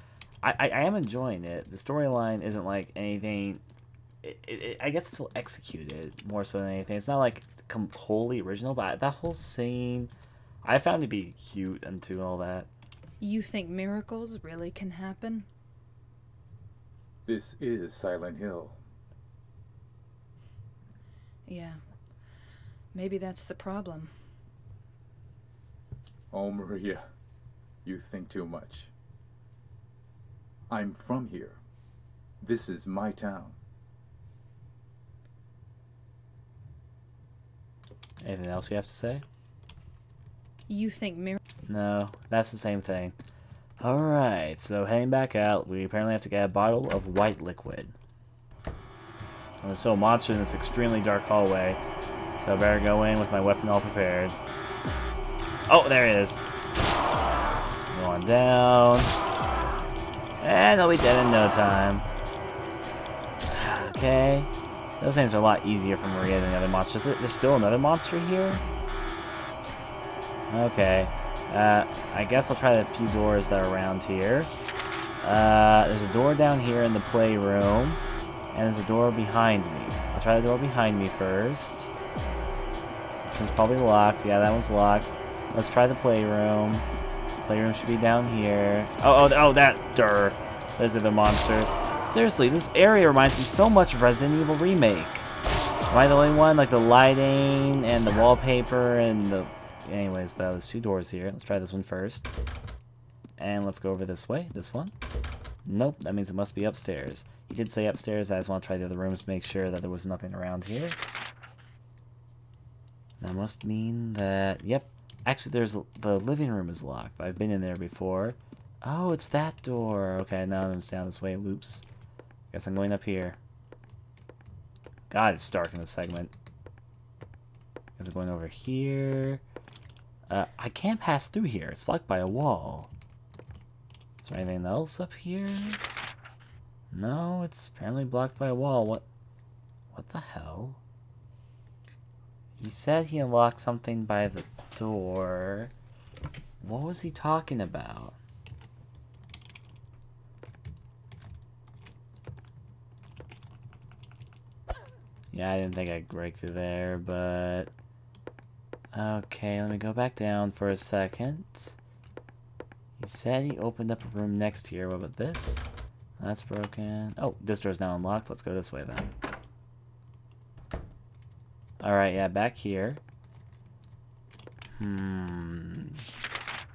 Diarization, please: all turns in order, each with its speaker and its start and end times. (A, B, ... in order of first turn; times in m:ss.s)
0:00.4-0:03.6 A
0:04.2-0:10.1 A
0:10.6-0:12.7 A
0:13.2-0:15.5 B
0:17.3-0:18.8 C
0:21.5-0:21.8 B
0:22.9-0:24.2 B
0:26.3-0:27.0 C
0:27.8-0:28.9 C
0:30.7-0:31.6 C
0:32.4-0:33.6 C
0:38.2-0:39.2 A
0:40.7-0:41.4 B
0:41.7-0:43.2 A
0:43.8-0:48.0 A
0:49.6-0:51.8 A
0:52.4-0:54.4 A
0:55.7-0:56.4 A
0:57.9-0:59.2 A
1:00.4-1:02.1 A
1:03.5-1:08.6 A
1:10.5-1:14.5 A
1:15.2-1:18.0 A
1:18.5-1:21.9 A
1:23.3-1:26.9 A
1:27.4-1:35.3 A
1:35.9-1:42.3 A
1:43.4-1:44.9 A
1:45.6-1:51.0 A
1:53.2-2:01.9 A
2:02.5-2:03.4 A
2:05.1-2:06.3 A
2:08.0-2:09.4 A
2:10.3-2:12.9 A
2:14.2-2:15.8 A
2:16.9-2:19.1 A
2:19.9-2:20.8 A
2:22.6-2:25.7 A
2:26.6-2:28.2 A
2:35.3-2:37.7 A
2:38.9-2:41.8 A
2:43.0-2:45.6 A
2:46.2-2:49.2 A
2:51.8-2:53.0 A
2:54.8-2:56.0 A